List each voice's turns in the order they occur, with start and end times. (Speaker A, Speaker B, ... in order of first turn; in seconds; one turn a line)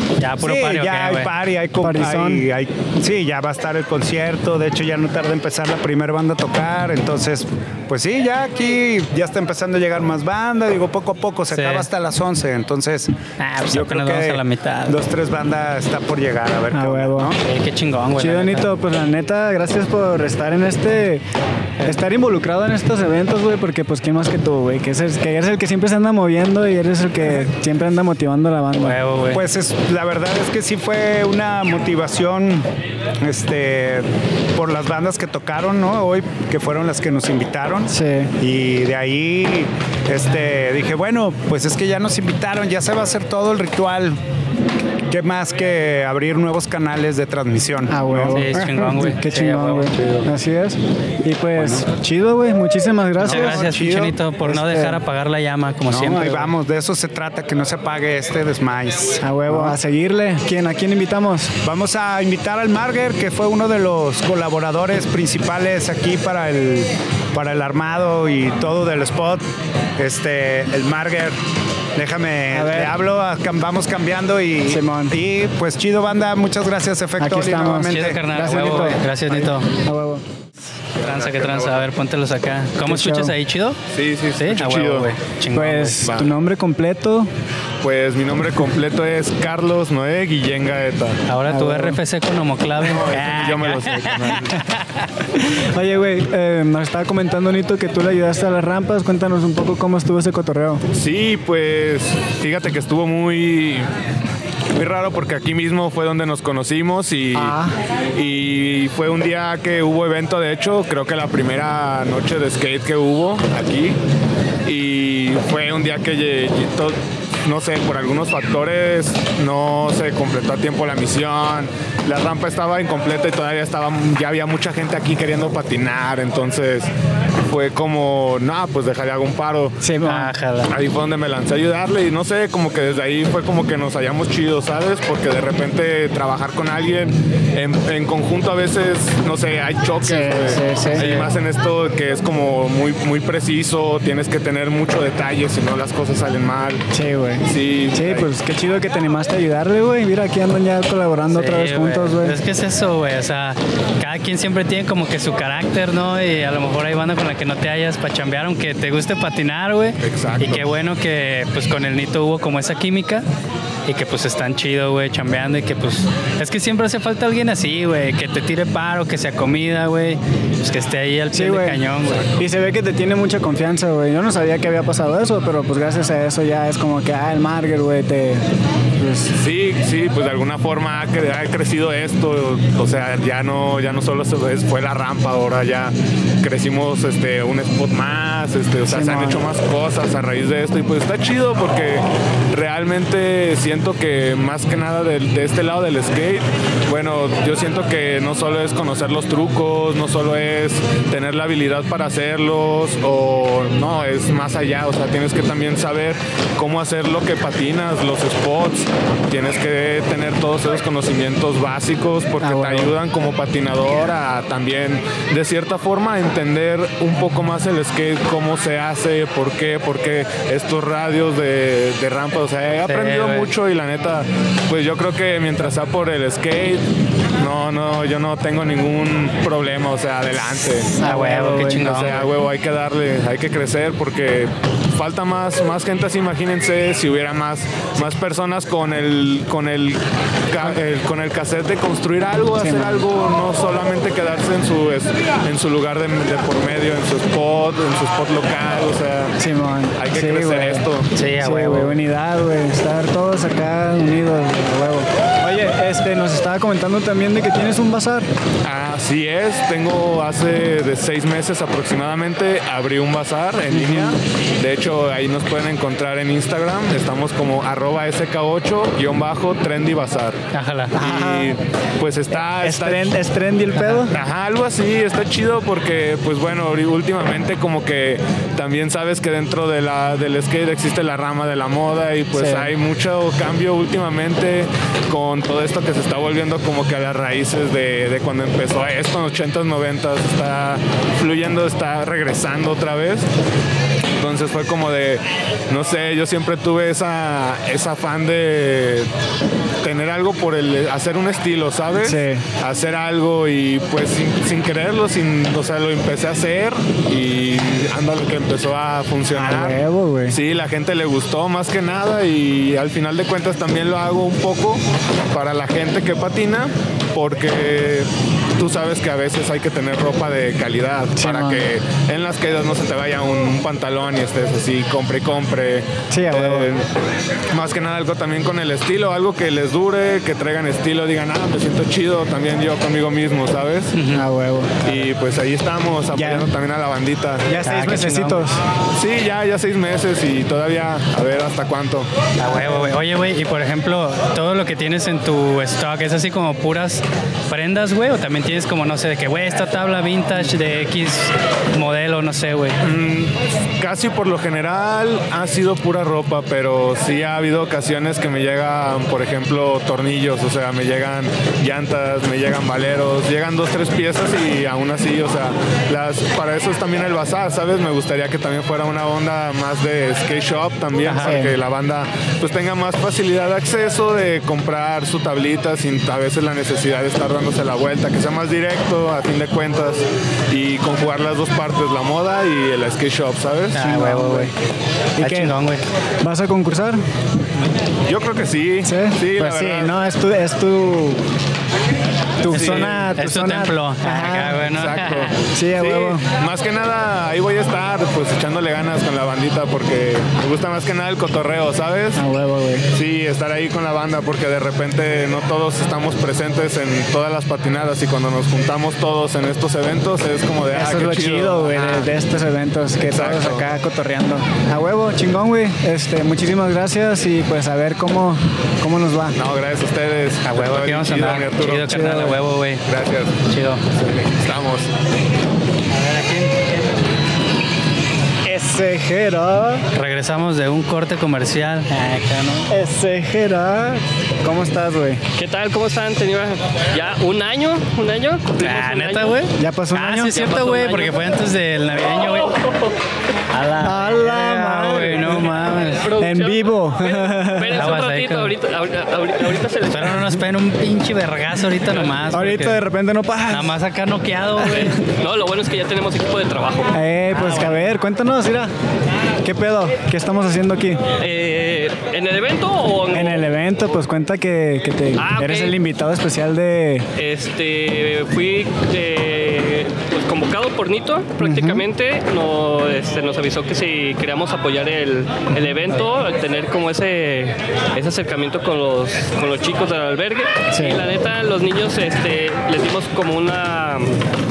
Speaker A: 0.2-1.3
Speaker B: 0.4-13.1
Speaker C: 1.8-2.5
Speaker A: 11.5-11.9
Speaker A: 13.4-15.0
Speaker B: 13.7-17.4
Speaker C: 16.7-17.3
Speaker A: 17.4-18.7
Speaker C: 18.2-21.2
Speaker C: 21.9-29.0
Speaker A: 28.8-29.4
Speaker B: 29.3-32.6
Speaker B: 33.2-44.2
Speaker C: 37.9-38.3
Speaker B: 45.1-48.7
Speaker C: 47.9-53.7
Speaker A: 48.3-49.9
Speaker B: 51.6-51.9
Speaker B: 53.2-54.2
Speaker A: 53.2-56.5
Speaker C: 54.4-55.0
Speaker B: 55.9-59.7
Speaker C: 59.2-61.5
Speaker B: 61.6-69.4
Speaker B: 70.0-71.4
Speaker B: 72.0-78.9
Speaker C: 72.5-73.0
Speaker C: 74.7-75.1
Speaker C: 77.2-79.0
Speaker A: 77.9-79.7
Speaker C: 79.8-80.2
Speaker D: 81.0-81.9
Speaker A: 81.0-83.8
Speaker C: 82.9-83.3
Speaker D: 83.9-85.1
Speaker A: 84.4-86.0
Speaker C: 85.5-87.3
Speaker D: 86.0-86.3
Speaker D: 87.8-91.2
Speaker A: 91.3-95.1
Speaker C: 91.5-92.0
Speaker D: 92.8-94.6
Speaker C: 95.4-100.8
Speaker D: 100.9-103.9
Speaker D: 104.8-107.6
Speaker C: 107.3-107.8
Speaker D: 108.1-114.0
Speaker D: 114.7-126.9
Speaker D: 127.5-129.8
Speaker C: 129.8-130.3
Speaker A: 130.1-130.7
Speaker D: 130.7-146.8
Speaker C: 140.0-141.1
Speaker A: 141.0-141.3
Speaker C: 146.9-152.4
Speaker D: 147.5-148.3
Speaker A: 151.3-163.2
Speaker D: 160.0-160.8
Speaker A: 163.9-172.3
Speaker C: 171.3-171.8
Speaker C: 172.4-178.4
Speaker C: 179.0-179.3
Speaker D: 179.3-226.8
Speaker C: 188.9-189.4
Speaker C: 212.4-212.9
Speaker A: 222.9-223.5
Speaker D: 227.4-231.0
Speaker C: 230.9-232.0
Speaker A: 231.0-232.3
Speaker D: 231.8-249.3
Speaker C: 242.6-243.1
Speaker C: 249.4-250.9
Speaker D: 250.0-251.1
Speaker A: 251.1-252.0
Speaker C: 251.4-258.3
Speaker D: 258.6-270.4
Speaker C: 263.7-264.2
Speaker A: 270.5-270.9
Speaker C: 270.9-271.6
Speaker D: 270.9-273.0
Speaker C: 272.4-274.1
Speaker D: 274.1-293.3
Speaker C: 282.3-282.7
Speaker D: 294.1-299.1
Speaker D: 299.8-309.8
Speaker C: 302.0-302.4
Speaker C: 309.3-310.4
Speaker D: 310.3-326.9
Speaker C: 321.1-321.6
Speaker C: 326.1-326.7
Speaker D: 327.5-333.9
Speaker A: 333.9-334.2
Speaker C: 334.1-335.1
Speaker D: 334.9-337.5
Speaker C: 336.1-336.5
Speaker C: 337.5-338.6
Speaker A: 337.6-338.4
Speaker D: 338.9-342.1
Speaker A: 342.4-352.8
Speaker D: 352.8-383.8
Speaker A: 371.1-371.4
Speaker C: 371.1-371.5
Speaker A: 383.7-384.5
Speaker C: 383.8-384.5
Speaker C: 385.2-385.6
Speaker A: 385.2-385.8
Speaker C: 386.2-387.0
Speaker D: 388.1-389.9
Speaker C: 388.9-391.2
Speaker C: 392.4-394.7
Speaker D: 392.5-393.1
Speaker A: 392.5-395.3
Speaker D: 394.6-402.2
Speaker C: 395.5-396.2
Speaker C: 402.1-402.9
Speaker D: 402.9-412.1
Speaker C: 410.7-419.4
Speaker D: 413.0-413.6
Speaker D: 419.4-422.2
Speaker A: 420.4-422.8
Speaker C: 421.8-422.4
Speaker D: 422.9-423.4
Speaker A: 423.5-423.9
Speaker D: 424.0-424.9
Speaker A: 425.9-427.0
Speaker C: 428.5-429.9
Speaker A: 429.9-432.7
Speaker C: 432.7-435.2
Speaker E: 435.4-439.4
Speaker A: 438.6-442.6
Speaker C: 439.6-440.4
Speaker E: 440.3-441.1
Speaker A: 443.5-446.1
Speaker C: 443.8-447.9
Speaker E: 446.0-450.3
Speaker A: 447.7-448.5
Speaker A: 449.9-452.8
Speaker C: 452.3-453.8
Speaker A: 453.5-455.0
Speaker C: 454.6-454.9
Speaker E: 454.7-456.9
Speaker C: 456.9-458.7
Speaker A: 457.3-457.8
Speaker C: 459.4-461.0
Speaker E: 461.2-463.4
Speaker C: 463.1-467.1
Speaker E: 465.2-465.8
Speaker E: 467.2-484.2
Speaker C: 471.4-471.8
Speaker C: 480.7-481.0